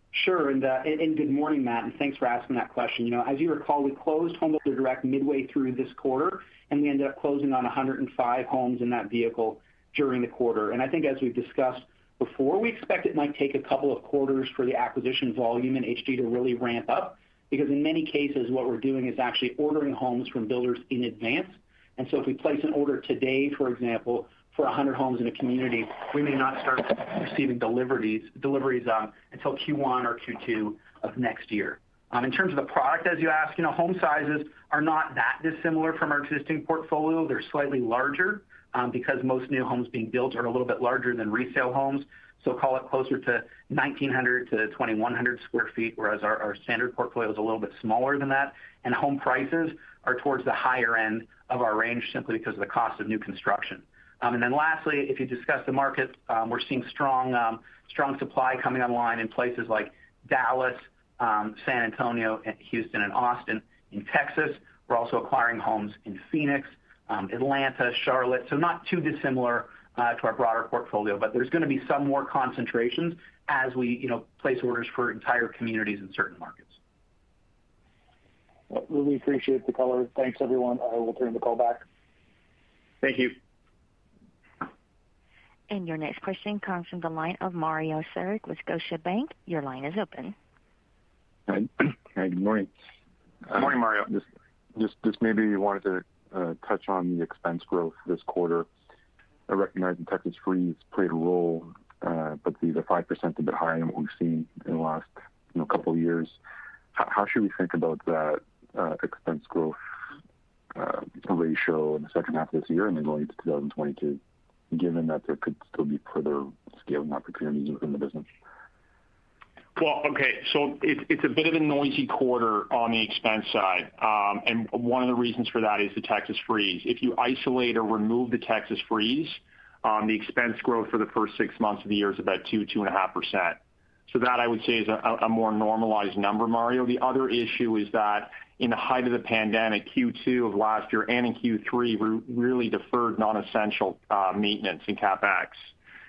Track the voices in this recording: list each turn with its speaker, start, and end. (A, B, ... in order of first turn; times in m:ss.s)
0:00.1-1:16.8 A
1:18.7-1:21.8 B
1:23.0-1:23.4 C
1:25.7-1:30.4 D
1:31.5-1:32.7 E
1:33.5-1:34.2 E
1:33.6-1:34.1 C
1:34.8-1:38.7 E
1:39.5-1:46.4 E
1:47.0-1:49.8 E
1:50.8-1:54.2 E
1:54.7-1:58.3 E
1:59.8-2:25.7 C